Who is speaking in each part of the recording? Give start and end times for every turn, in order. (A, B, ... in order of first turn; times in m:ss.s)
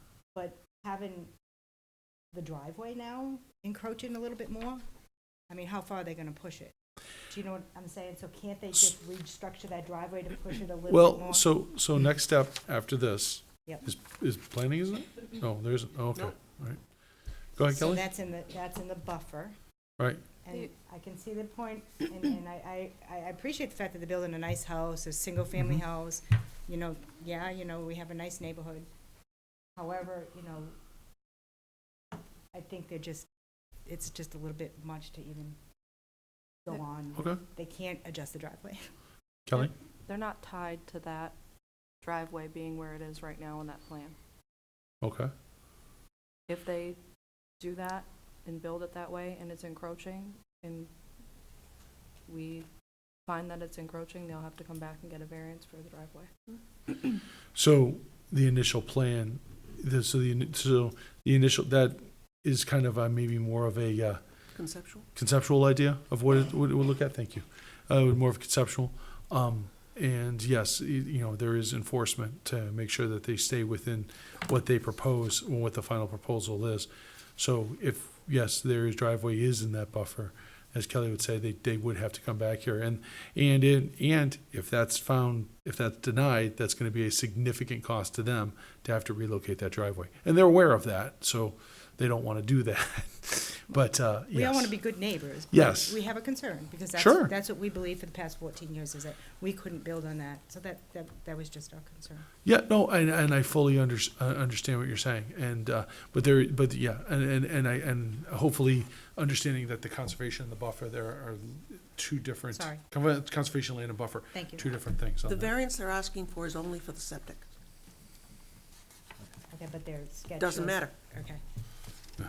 0:00.3-0:01.3 A
0:02.3-0:04.8 A
0:05.5-0:06.7 A
0:07.3-0:11.4 A
0:10.9-0:16.8 B
0:17.6-0:18.1 B
0:17.7-0:19.6 A
0:20.0-0:20.2 B
0:20.4-0:28.9 A
0:29.8-0:30.7 A
0:32.5-0:33.3 A
0:33.8-0:35.6 A
0:36.6-0:38.9 A
0:39.5-0:39.7 B
0:39.6-0:41.3 C
0:42.0-0:44.2 C
0:45.0-0:45.3 B
0:46.5-0:47.0 C
0:47.6-0:50.9 C
0:52.3-0:52.7 C
0:53.2-0:56.3 C
0:57.5-1:04.2 B
1:04.5-1:05.1 D
1:05.1-1:34.7 B
1:34.3-1:42.3 A
1:35.5-1:36.0 B
1:37.0-1:37.3 B
1:42.4-1:55.5 B
1:52.5-1:52.8 A
1:54.3-1:54.6 A
1:55.2-1:57.4 D
1:59.5-2:01.4 A
2:00.4-2:00.9 D